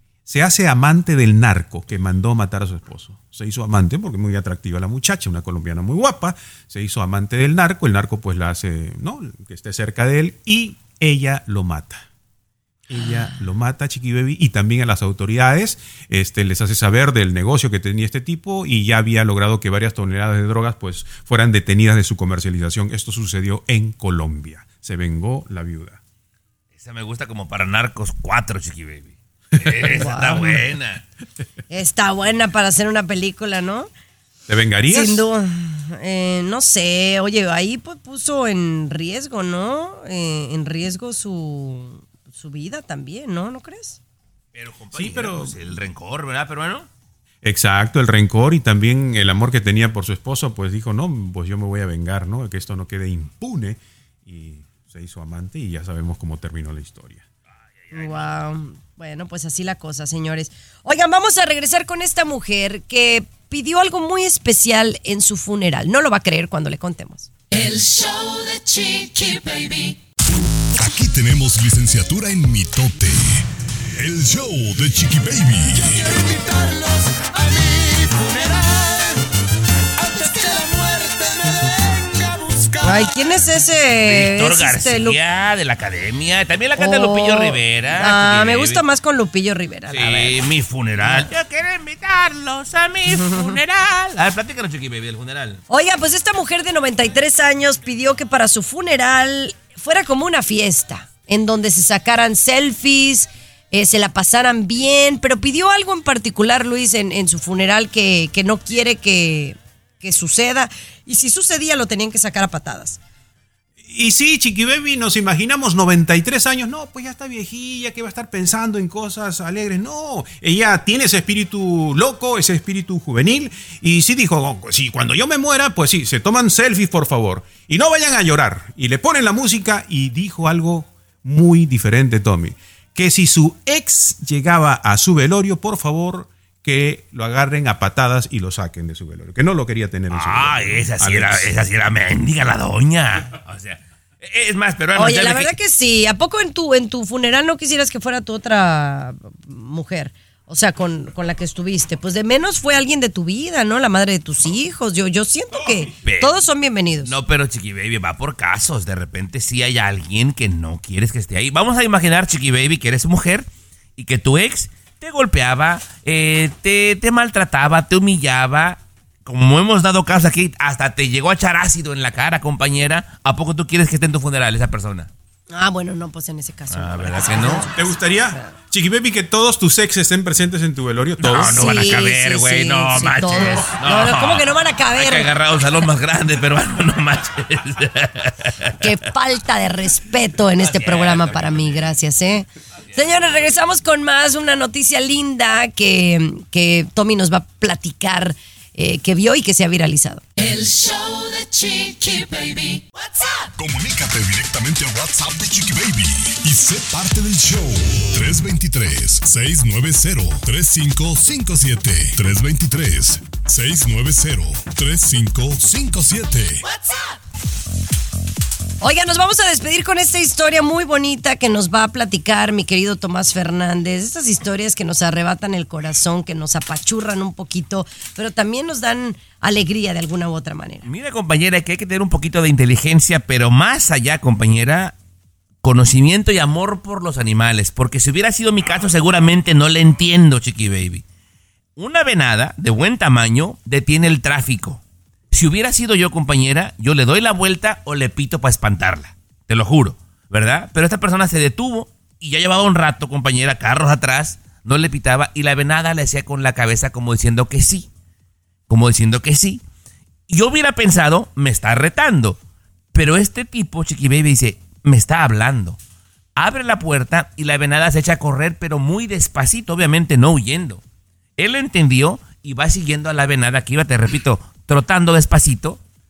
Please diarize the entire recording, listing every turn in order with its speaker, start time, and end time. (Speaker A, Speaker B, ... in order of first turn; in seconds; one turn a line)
Speaker A: 0.3-12.1
Speaker A: 12.9-26.0
Speaker B: 26.8-31.0
Speaker A: 29.6-30.2
Speaker C: 30.0-30.6
Speaker C: 31.7-33.9
Speaker A: 34.5-35.2
Speaker C: 34.9-44.0
Speaker B: 44.5-46.9
Speaker A: 44.9-45.6
Speaker A: 47.4-57.2
Speaker C: 57.9-67.3
Speaker D: 67.5-70.0
Speaker E: 70.8-76.2
Speaker D: 75.8-79.2
Speaker D: 80.0-83.1
Speaker C: 82.8-85.2
Speaker B: 84.0-88.8
Speaker C: 86.8-90.4
Speaker B: 89.9-95.6
Speaker C: 91.0-91.3
Speaker C: 93.1-93.6
Speaker C: 95.7-113.0
Speaker A: 113.9-141.5
Speaker B: 140.1-145.5
Speaker C: 145.0-157.1
Speaker B: 156.0-156.3
Speaker B: 157.0-175.1
Speaker C: 175.5-178.6
Speaker B: 176.7-177.7
Speaker A: 177.6-181.8
Speaker B: 181.2-188.8
Speaker C: 181.5-185.3
Speaker C: 188.8-200.2
Speaker B: 190.6-192.0
Speaker D: 200.4-203.5
Speaker E: 203.6-216.6
Speaker D: 216.7-217.0
Speaker C: 218.8-230.8
Speaker B: 230.8-234.9
Speaker B: 235.6-241.0
Speaker B: 241.8-257.9
Speaker B: 258.7-259.6
Speaker B: 260.3-262.4
Speaker B: 262.9-265.8
Speaker B: 266.4-270.8
Speaker B: 271.4-275.8